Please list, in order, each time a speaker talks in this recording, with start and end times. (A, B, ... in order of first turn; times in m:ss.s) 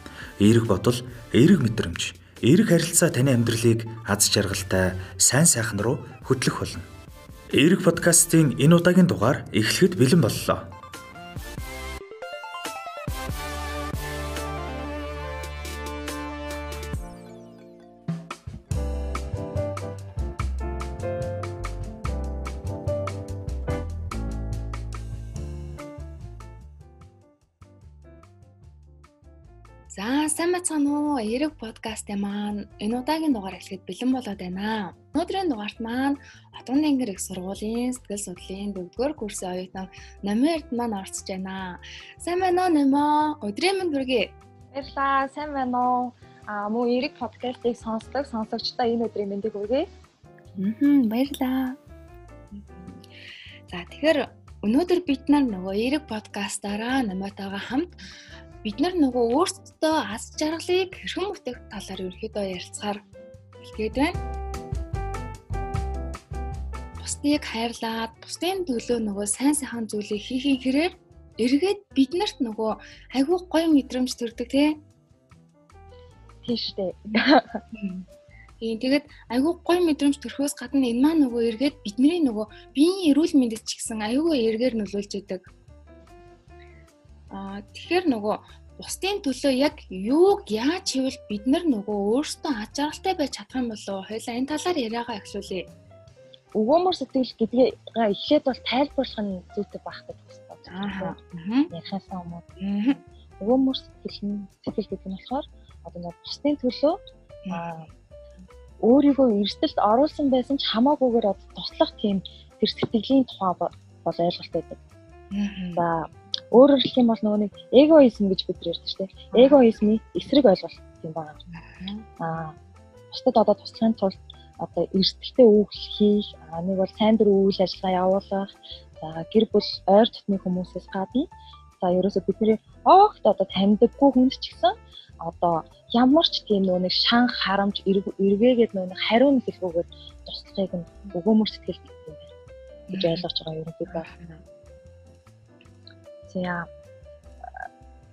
0:00.4-0:06.9 A
0:07.5-0:10.7 A
0:29.9-0:44.3 B
0:44.7-0:49.9 C
0:50.6-0:51.8 B
0:52.5-0:53.0 B
0:53.7-0:58.0 B
0:58.6-1:03.0 B
1:03.6-1:04.2 B
1:07.0-1:14.8 B
1:16.4-1:17.6 C
1:17.7-1:18.1 B
1:18.6-1:25.5 B
1:27.3-1:35.7 B
1:36.5-1:41.2 C
1:40.7-1:41.7 B
1:41.7-1:42.4 C
1:42.6-1:43.0 B
1:43.4-1:47.9 C
1:47.5-1:47.8 B
1:48.8-1:54.8 C
1:55.3-1:55.8 B
1:55.8-2:01.4 C
1:59.3-1:59.6 B
2:01.5-2:02.0 B
2:02.2-2:02.6 C
2:03.1-2:11.3 C
2:11.8-2:22.3 C
2:22.9-2:23.2 B
2:22.9-2:24.1 C
2:23.9-2:24.4 B
2:26.3-2:26.7 C